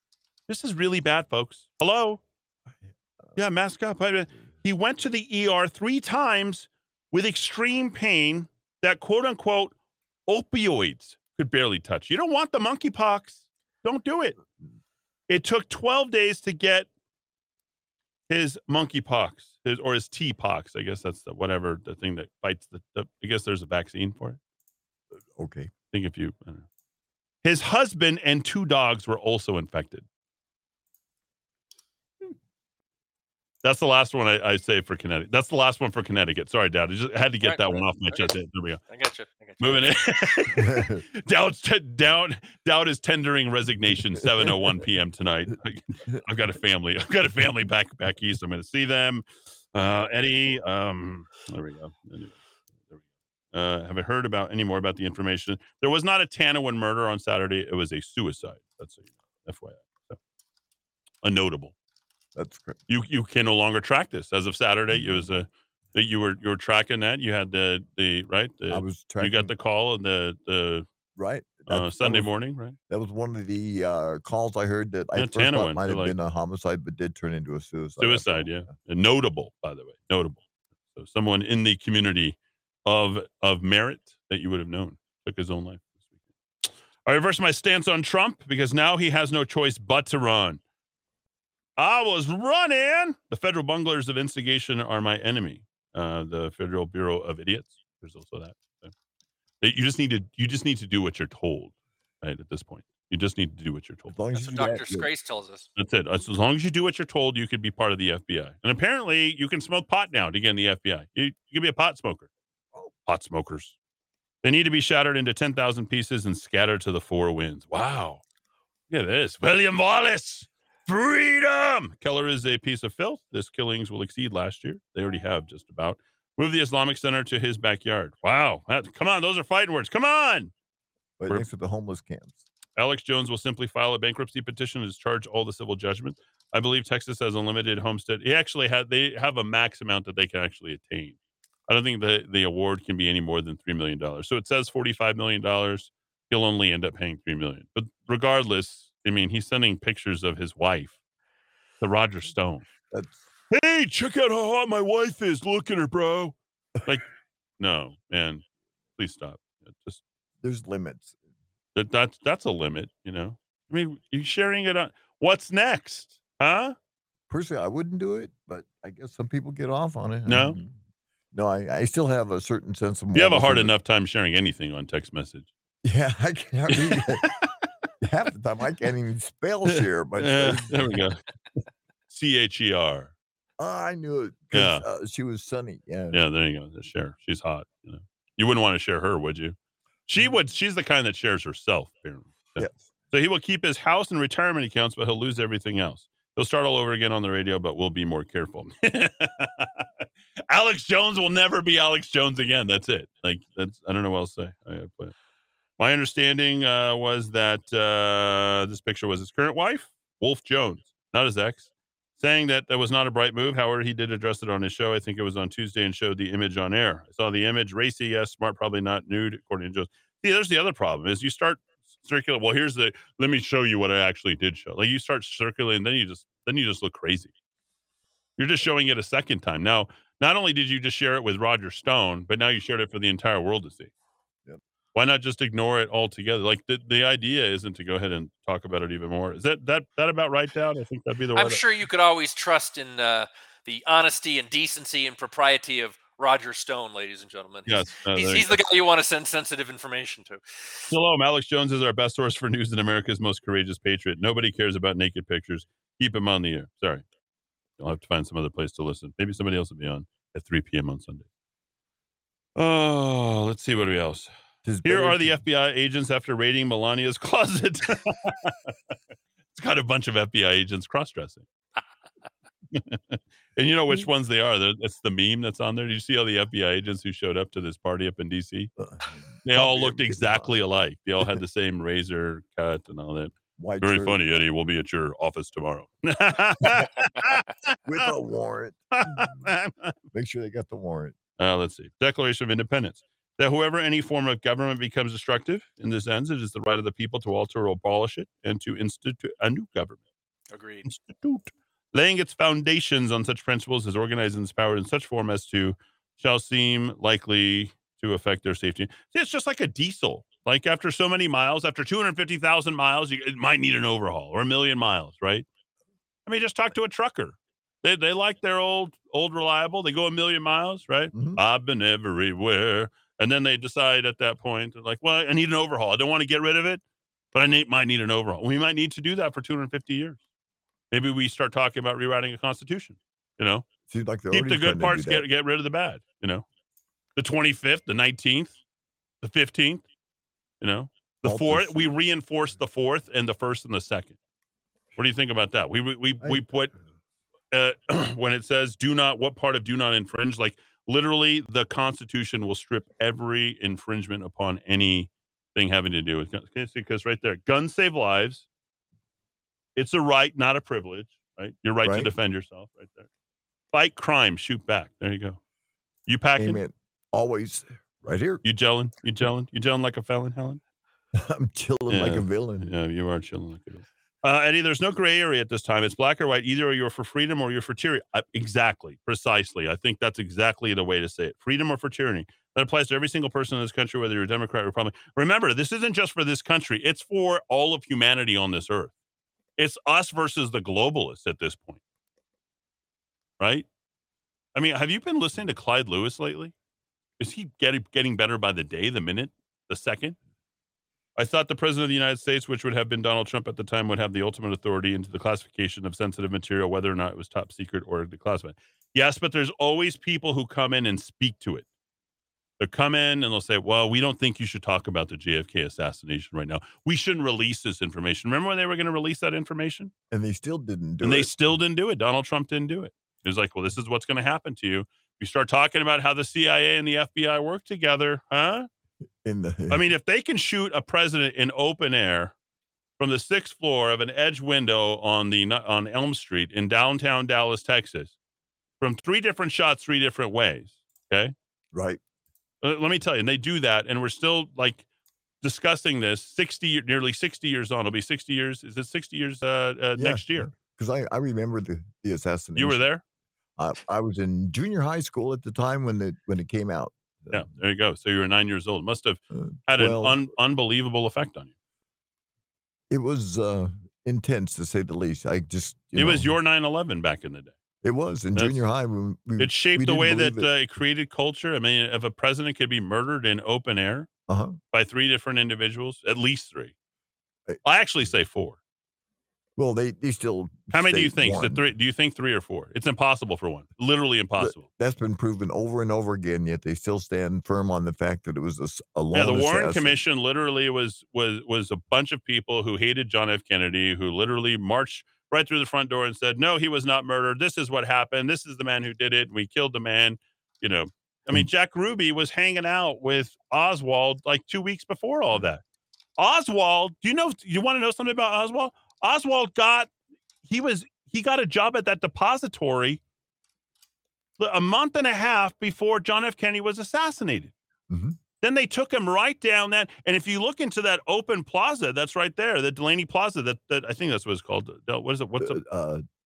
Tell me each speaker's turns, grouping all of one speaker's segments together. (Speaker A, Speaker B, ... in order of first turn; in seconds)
Speaker A: 0.5-2.2, 3.4-9.7, 10.3-14.4, 15.3-16.9, 18.3-24.4, 25.9-26.6, 27.4-30.1, 33.6-38.8, 39.6-52.4, 53.5-60.2, 61.2-61.7, 62.9-70.9, 71.7-72.8, 75.2-76.2, 78.0-80.4, 80.9-85.9, 87.0-90.6, 91.8-98.9, 99.6-104.1, 105.8-112.3, 113.1-113.8, 114.4-118.2, 118.9-130.5, 132.8-141.2, 141.7-150.9, 151.8-152.7, 153.5-157.1, 157.6-158.4, 159.0-160.0, 161.8-166.8, 170.3-170.6, 173.1-175.5, 176.7-177.5, 179.7-181.2, 182.1-183.1, 184.5-184.8, 186.1-189.6, 190.1-199.8, 200.5-205.1, 205.8-227.3, 228.4-233.9, 234.9-241.6, 247.7-248.7, 250.9-257.0, 257.8-261.3, 262.6-264.3, 264.8-268.6, 269.5-271.5, 272.7-278.7, 279.4-288.1, 288.9-289.9, 291.4-300.0, 300.9-315.5, 316.3-326.8, 327.3-330.2, 330.9-333.7, 334.3-336.5, 337.2-338.6, 339.2-339.9, 340.6-344.2, 345.0-346.7, 347.5-358.5, 359.8-363.1, 363.7-365.4, 366.1-366.6, 368.4-370.6, 371.9-388.9, 389.6-391.8, 393.4-393.7, 394.6-396.5, 397.2-400.2, 401.2-411.7, 412.6-419.9, 421.0-428.7, 429.7-432.4, 433.0-438.2, 438.8-441.3, 442.6-444.8, 445.4-450.5, 452.6-453.0, 457.3-461.5, 465.9-467.5, 469.4-474.1, 474.7-476.7, 477.6-478.6, 480.7-484.6, 489.1-505.6, 506.2-509.9, 510.4-513.0, 514.4-517.5, 518.4-525.6
Speaker B: 25.4-25.7, 40.6-41.0, 44.2-44.8, 62.4-62.8, 64.9-65.3, 68.7-69.5, 71.2-72.3, 72.9-78.7, 104.1-105.1, 131.2-132.4, 152.9-153.2, 160.4-161.1, 167.3-170.7, 171.3-173.7, 175.8-177.2, 178.0-181.0, 183.6-186.2, 264.6-265.4, 278.8-280.6, 283.6-284.2, 287.9-289.4, 290.1-291.1, 321.1-321.4, 333.9-335.3, 341.2-341.9, 361.8-362.1, 366.4-368.4, 371.2-372.7, 420.1-421.3, 429.2-429.9, 441.7-442.0, 450.0-452.8, 453.6-457.5, 459.3-460.2, 462.9-466.3, 467.8-470.5, 474.3-474.6, 479.6-481.7, 484.4-490.0, 517.9-518.2, 525.4-526.0
Speaker C: 37.4-38.3, 38.9-40.0, 104.3-105.7, 241.3-250.9, 300.5-300.9